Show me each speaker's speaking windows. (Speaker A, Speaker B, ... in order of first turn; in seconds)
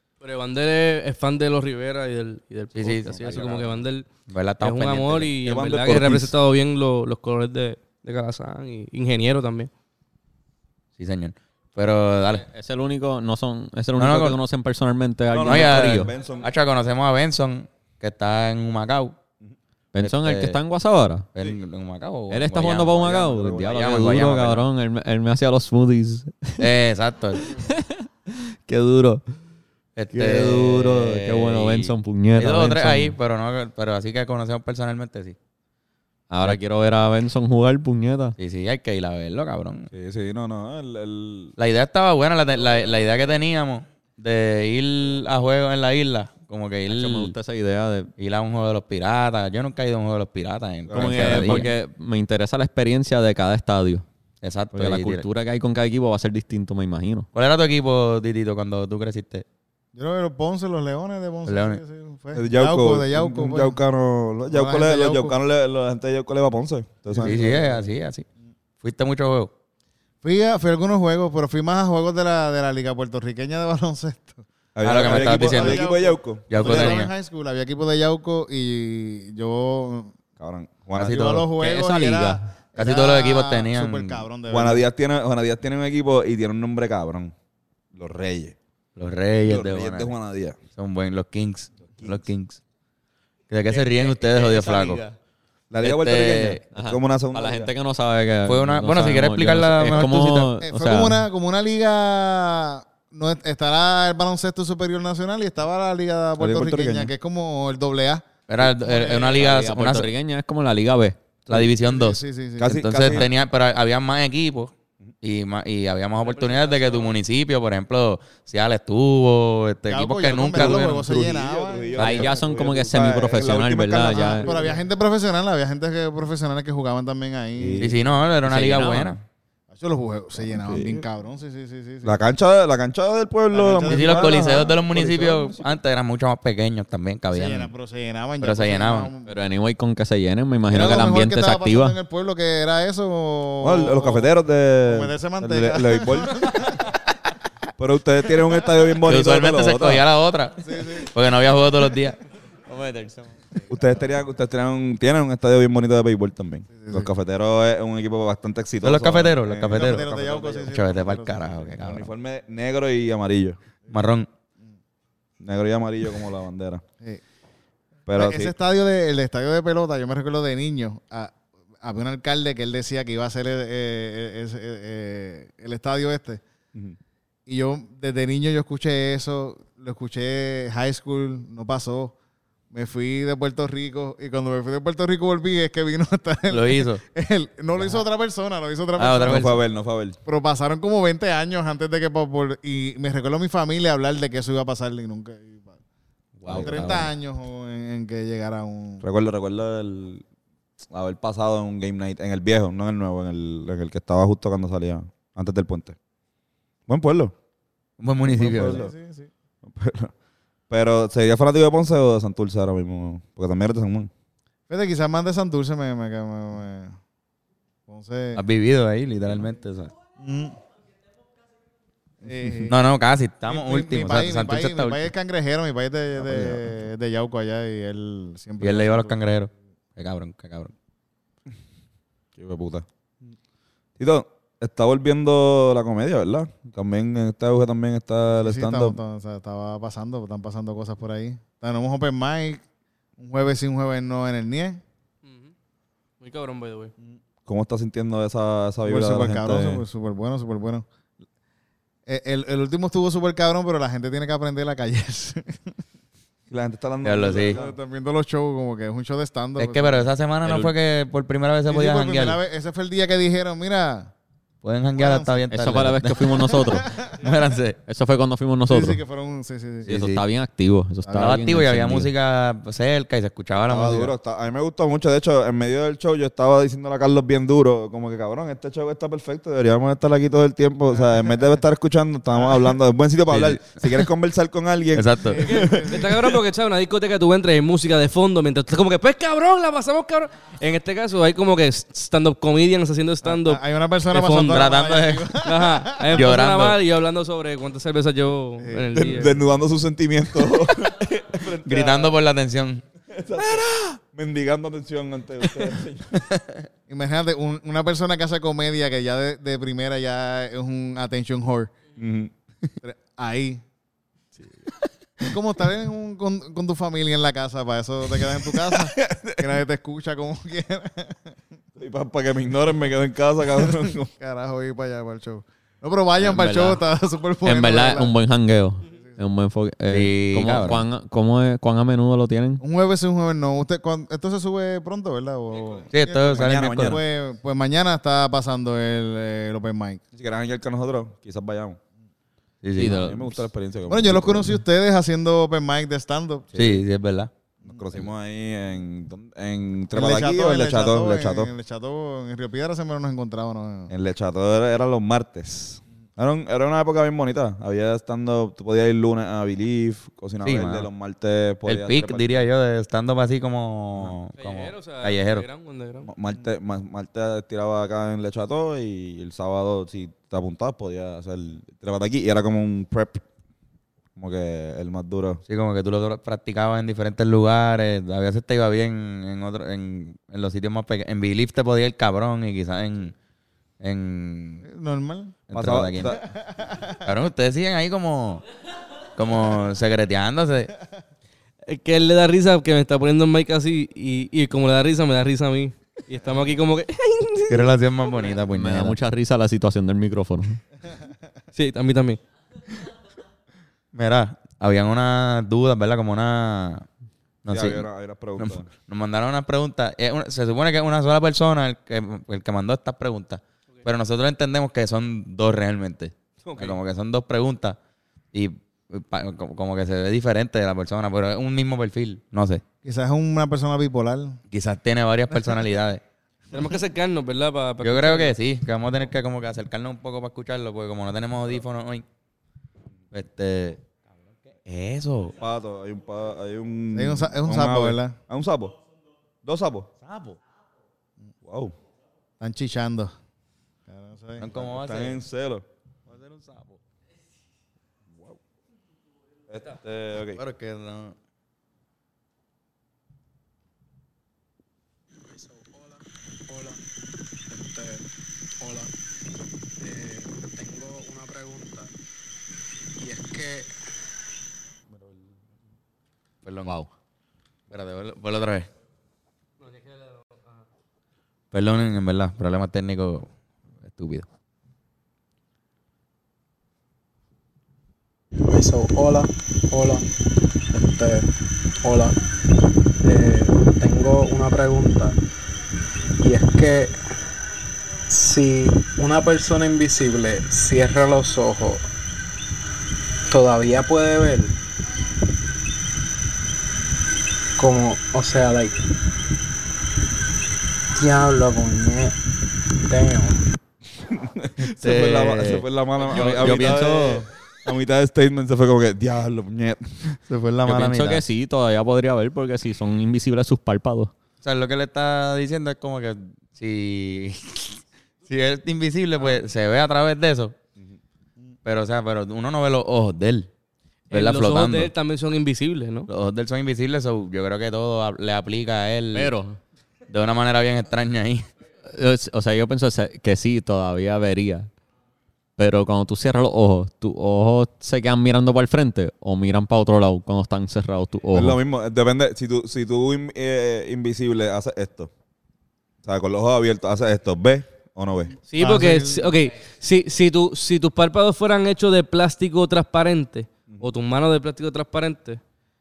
Speaker A: 0.2-4.1, 4.6-9.7, 116.2-117.2, 245.2-245.5, 246.2-246.9, 285.5-294.7, 295.4-299.4, 364.4-366.1, 391.7-398.3, 401.6-402.2, 426.5-428.3, 469.6-470.6, 524.1-526.1, 548.5-555.4
Speaker B: 2.8-3.7, 4.3-5.3, 11.0-12.4, 14.0-14.4, 15.5-19.1, 20.0-20.6, 21.4-24.6, 26.6-27.5, 30.0-35.4, 38.4-39.9, 41.6-47.3, 48.2-51.7, 54.4-55.2, 57.3-59.5, 61.5-61.8, 67.2-68.3, 68.8-69.5, 74.8-75.8, 76.5-77.1, 81.0-81.5, 82.8-84.2, 89.0-90.1, 90.8-92.6, 93.5-95.0, 95.8-96.7, 98.5-100.5, 108.5-110.1, 111.5-121.1, 122.0-122.3, 127.8-129.2, 133.9-137.7, 138.4-139.1, 149.1-152.2, 158.8-162.1, 163.9-164.3, 186.5-187.0, 189.0-189.6, 196.4-197.1, 208.0-208.8, 218.3-219.9, 222.7-225.1, 228.6-230.7, 257.0-257.6, 259.6-262.4, 264.6-267.8, 269.9-270.2, 271.2-274.1, 283.3-284.1, 284.9-285.5, 294.5-295.3, 296.1-296.8, 301.6-302.8, 306.2-306.6, 329.9-330.8, 335.9-337.0, 342.6-343.0, 346.6-347.3, 360.4-360.9, 361.7-365.5, 375.5-383.1, 383.8-384.6, 385.5-386.2, 387.0-388.4, 389.2-390.7, 397.5-399.0, 403.9-406.9, 407.4-407.9, 408.4-417.8, 418.3-422.6, 424.5-426.0, 427.8-432.1, 433.1-433.8, 434.5-435.4, 440.0-440.4, 444.4-445.2, 446.1-446.8, 450.4-451.1, 466.4-466.8, 467.7-468.7, 471.5-473.3, 473.9-474.3, 504.6-507.1, 510.3-511.2, 514.4-520.6, 521.6-523.5, 524.1-524.9, 526.1-529.3, 530.1-531.5
Speaker C: 3.3-3.7, 5.4-6.3, 15.3-16.5, 22.9-23.8, 39.9-41.5, 50.9-51.7, 62.4-67.7, 74.8-77.0, 80.4-81.2, 84.5-87.3, 87.9-88.6, 89.4-90.6, 92.0-92.2, 95.7-97.7, 106.4-107.1, 112.6-113.3, 120.5-124.7, 127.6-128.0, 130.4-131.1, 132.0-135.7, 143.6-146.6, 147.8-150.1, 153.7-160.7, 161.8-163.6, 165.4-166.8, 168.1-168.6, 189.2-190.2, 196.4-196.9, 199.0-200.2, 200.9-206.0, 206.9-207.3, 208.3-208.9, 209.7-210.1, 210.7-214.1, 226.2-226.7, 232.4-232.9, 234.0-239.0, 247.5-249.8, 256.5-257.8, 273.7-286.2, 298.9-302.2, 303.1-306.2, 312.0-312.3, 318.4-319.5, 321.8-324.1, 336.3-337.0, 340.1-341.8, 342.8-344.6, 346.5-346.8, 347.7-351.5, 353.9-362.4, 366.1-373.2, 374.2-375.4, 385.5-386.2, 407.5-408.7, 416.4-416.8, 435.4-438.8, 439.4-439.9, 441.4-441.7, 444.5-445.6, 448.1-448.4, 449.5-450.4, 504.1-510.2, 541.3-545.1, 546.0-548.4
Speaker D: 12.4-16.1, 19.9-21.2, 22.3-26.7, 27.4-29.2, 30.1-33.2, 36.3-38.4, 46.9-48.1, 50.9-54.0, 54.7-57.3, 81.5-82.4, 93.7-95.2, 96.7-101.2, 109.4-111.3, 122.0-124.5, 128.5-129.1, 139.3-142.0, 152.7-153.9, 260.4-260.7, 265.5-267.1, 267.9-269.0, 269.9-272.1, 326.2-326.8, 327.4-332.6, 342.8-343.3, 398.5-400.6, 506.1-507.3, 510.6-514.1, 529.1-529.6, 531.9-534.7, 535.6-541.6
Speaker E: 60.0-63.8, 64.5-65.3, 67.1-67.8, 70.2-80.1, 81.0-84.9, 99.9-109.6, 111.8-113.2, 119.9-122.6, 124.0-127.9, 129.7-132.2, 133.5-134.9, 137.3-139.3, 140.7-144.3, 144.8-146.8, 150.6-151.1, 156.7-157.1, 159.7-161.8, 168.1-176.4, 177.5-182.1, 182.7-189.6, 190.2-195.8, 196.5-199.0, 208.3-209.3, 214.7-217.0, 217.9-218.4, 220.2-220.6, 222.2-222.8, 223.5-229.2, 238.4-242.6, 243.2-244.8, 248.8-250.8, 252.1-255.7, 257.5-260.1, 261.7-264.1, 265.0-265.5, 266.5-267.1, 268.7-269.9, 271.0-271.3, 285.3-286.0, 293.2-296.3, 298.6-299.3, 306.9-311.7, 312.8-313.6, 315.2-321.4, 323.8-328.1, 332.6-340.0, 343.9-346.5, 349.9-353.9, 384.6-385.4, 386.5-387.0, 422.8-424.4, 436.9-438.2, 442.4-443.1, 443.9-444.4, 548.6-549.4
Speaker F: 455.2-456.8, 457.5-458.1, 458.6-458.9, 459.8-461.9, 463.0-463.7, 478.4-480.1, 480.7-481.3, 481.8-482.2, 483.0-485.2, 486.2-487.0, 488.1-491.9, 493.3-494.6, 497.6-498.8, 501.0-502.2, 502.9-503.5